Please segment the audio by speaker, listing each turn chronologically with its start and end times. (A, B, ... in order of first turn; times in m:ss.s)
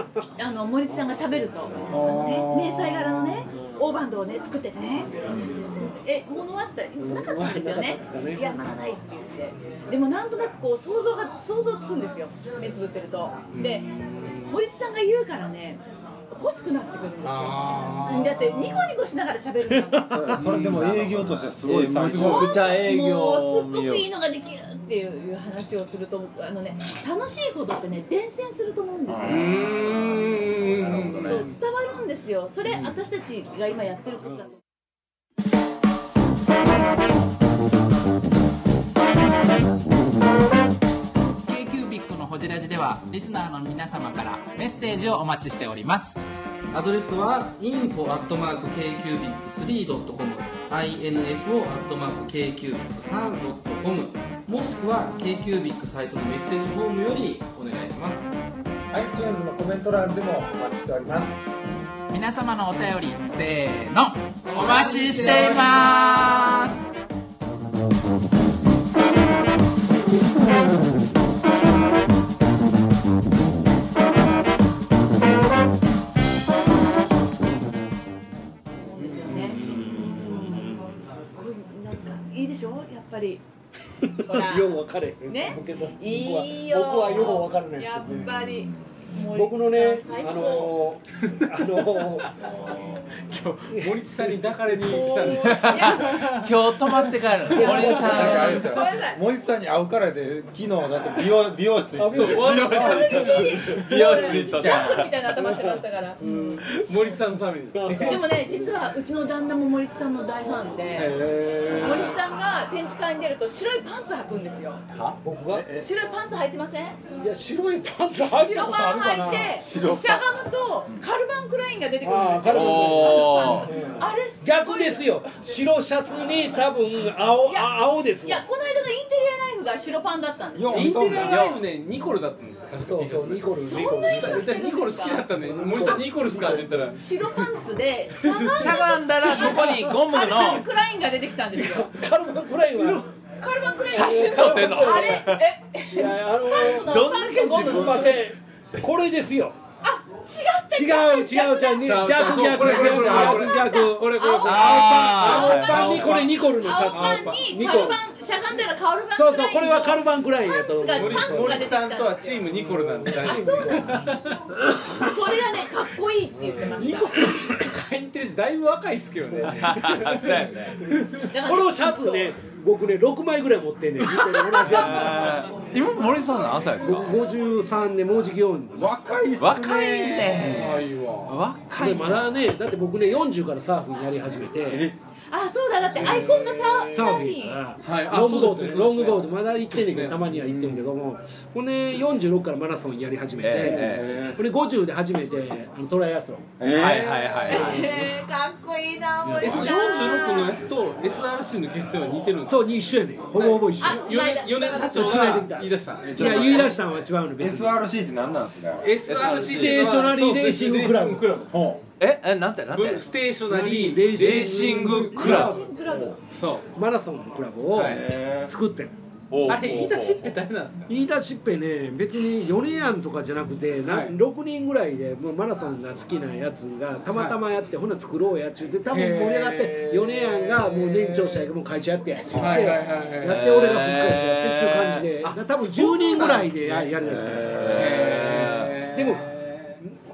0:00.2-0:13.9 A
0:01.9-0:03.4 B
0:07.0-0:08.6 C
0:13.5-0:14.6 B
0:14.4-0:20.3 A
0:17.2-0:18.9 B
0:20.0-0:22.8 D
0:20.3-0:20.9 B
0:20.7-0:24.1 E
0:21.9-0:22.4 B
0:22.0-0:29.5 A
0:29.1-0:29.4 D
0:29.3-0:31.6 B
0:29.6-0:31.4 E
0:31.2-0:34.6 A
0:41.5-0:46.2 F
0:47.1-0:47.4 G
0:49.9-0:50.4 G
0:52.2-0:55.2 G
0:55.7-0:58.1 G
0:58.9-1:01.4 D
1:02.1-1:06.9 F
1:04.6-1:05.7 E
1:05.2-1:05.5 G
1:18.8-1:23.4 A
1:19.2-1:20.9 C
1:24.1-1:30.8 A
1:24.1-1:28.5 C
1:28.1-1:28.8 E
1:29.3-1:32.3 C
1:31.8-1:32.3 B
1:33.3-1:36.5 B
1:33.7-1:34.7 C
1:34.8-1:36.5 A
1:35.4-1:38.7 E
1:37.5-1:39.2 A
1:37.7-1:43.6 D
1:42.0-1:44.4 B
1:42.5-1:46.6 A
1:43.7-1:45.3 E
1:44.5-1:45.0 D
1:45.4-1:45.7 C
1:46.2-1:46.5 C
1:46.2-1:48.4 B
1:47.7-1:48.7 C
1:48.0-1:54.8 A
1:50.9-1:52.2 B
1:55.2-1:55.8 C
1:55.5-1:55.9 D
1:55.7-1:57.0 A
1:57.2-1:59.6 C
1:58.0-2:05.2 A
1:59.3-2:00.3 D
2:02.0-2:08.4 C
2:02.5-2:03.7 E
2:07.5-2:11.1 A
2:10.6-2:11.6 D
2:10.7-2:17.0 B
2:12.8-2:14.6 C
2:13.5-2:15.3 A
2:15.4-2:17.0 C
2:16.9-2:21.9 A
2:18.1-2:19.4 B
2:18.6-2:20.7 E
2:21.5-2:23.1 C
2:22.6-2:23.1 B
2:23.4-2:28.2 A
2:23.9-2:25.3 C
2:23.9-2:25.4 E
2:25.9-2:29.6 C
2:26.5-2:28.2 E
2:29.8-2:32.0 A
2:30.7-2:38.0 C
2:31.8-2:38.0 B
2:32.6-2:35.9 A
2:34.4-2:36.3 E
2:36.6-2:42.4 A
2:39.1-2:41.8 C
2:40.9-2:44.8 B
2:42.8-2:44.1 C
2:43.1-2:44.1 A
2:44.9-2:47.3 A
2:46.6-2:51.3 B
2:49.6-2:50.8 E
2:50.9-2:55.4 C
2:51.3-2:52.3 A
2:54.6-2:57.1 E
2:56.8-2:58.9 C
2:58.8-3:00.5 D
2:59.4-3:02.3 E
3:00.4-3:01.4 B
3:01.8-3:04.9 C
3:04.7-3:05.0 D
3:05.3-3:07.6 A
3:05.9-3:07.1 B
3:06.0-3:16.5 C
3:07.8-3:10.9 B
3:13.4-3:14.1 E
3:13.6-3:14.4 D
3:16.6-3:17.4 D
3:16.7-3:17.9 E
3:16.8-3:17.9 B
3:17.5-3:20.6 A
3:19.2-3:19.7 C
3:19.4-3:22.6 B
3:22.5-3:24.1 C
3:23.3-3:26.8 B
3:23.8-3:25.0 A
3:24.9-3:27.8 C
3:26.0-3:26.8 D
3:27.4-3:28.9 D
3:28.8-3:31.5 B
3:29.1-3:29.8 E
3:29.5-3:31.5 C
3:31.5-3:31.8 D
3:32.0-3:33.1 E
3:32.7-3:35.6 B
3:33.5-3:35.6 C
3:34.1-3:35.6 E
3:35.1-3:36.2 A
3:36.3-3:36.7 B
3:36.8-3:39.0 C
3:37.7-3:38.0 B
3:37.8-3:38.5 D
3:39.3-3:40.3 E
3:39.4-3:40.9 B
3:40.9-3:58.0 C
3:43.8-3:44.2 B
3:47.1-3:47.4 B
3:48.9-3:51.5 B
3:52.3-3:53.4 B
3:53.2-3:55.1 E
3:55.1-3:59.8 B
3:57.1-3:58.9 E
3:57.4-3:57.7 D
3:58.9-3:59.3 C